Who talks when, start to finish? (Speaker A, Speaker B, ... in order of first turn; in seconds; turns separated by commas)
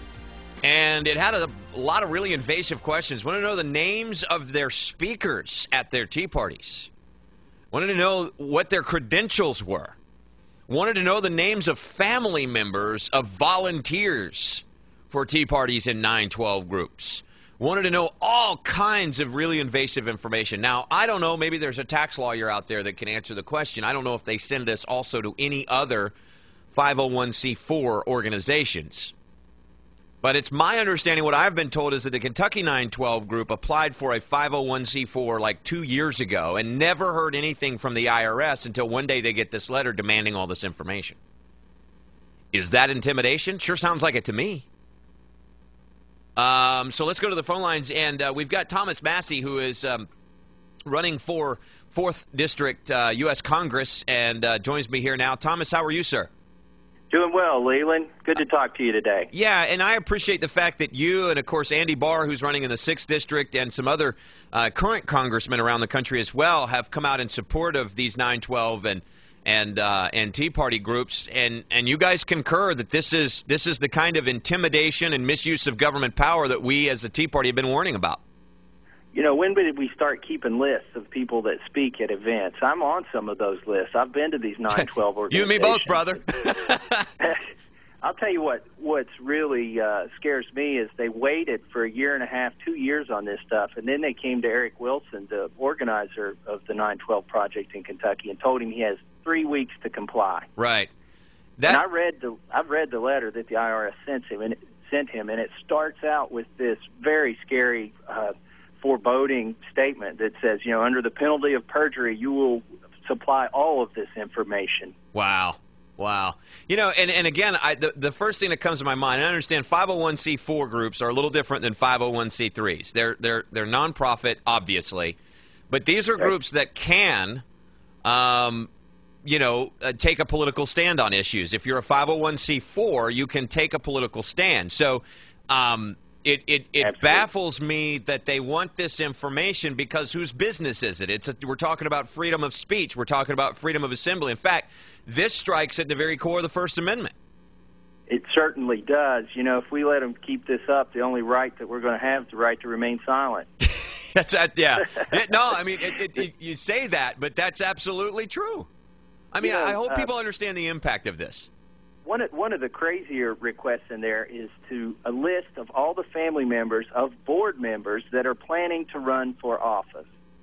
Speaker A: 0.6-6.9, Speaker A: 7.7-10.0, Speaker A: 10.7-26.1, Speaker A: 26.7-29.1, Speaker A: 30.2-41.2, Speaker A: 42.5-44.7, Speaker A: 46.4-50.1, Speaker A: 50.9-56.3, Speaker B: 57.1-59.3, Speaker A: 59.3-78.2, Speaker B: 79.1-86.0, Speaker A: 84.8-87.1, Speaker B: 88.0-100.5, Speaker A: 100.6-100.9, Speaker B: 101.7-114.9, Speaker A: 115.1-125.2, Speaker A: 125.7-127.4, Speaker A: 128.0-128.7, Speaker A: 129.2-147.1, Speaker B: 136.8-137.2, Speaker B: 148.1-153.5, Speaker A: 153.6-158.7, Speaker A: 159.3-161.5, Speaker B: 159.4-160.1, Speaker B: 162.1-170.1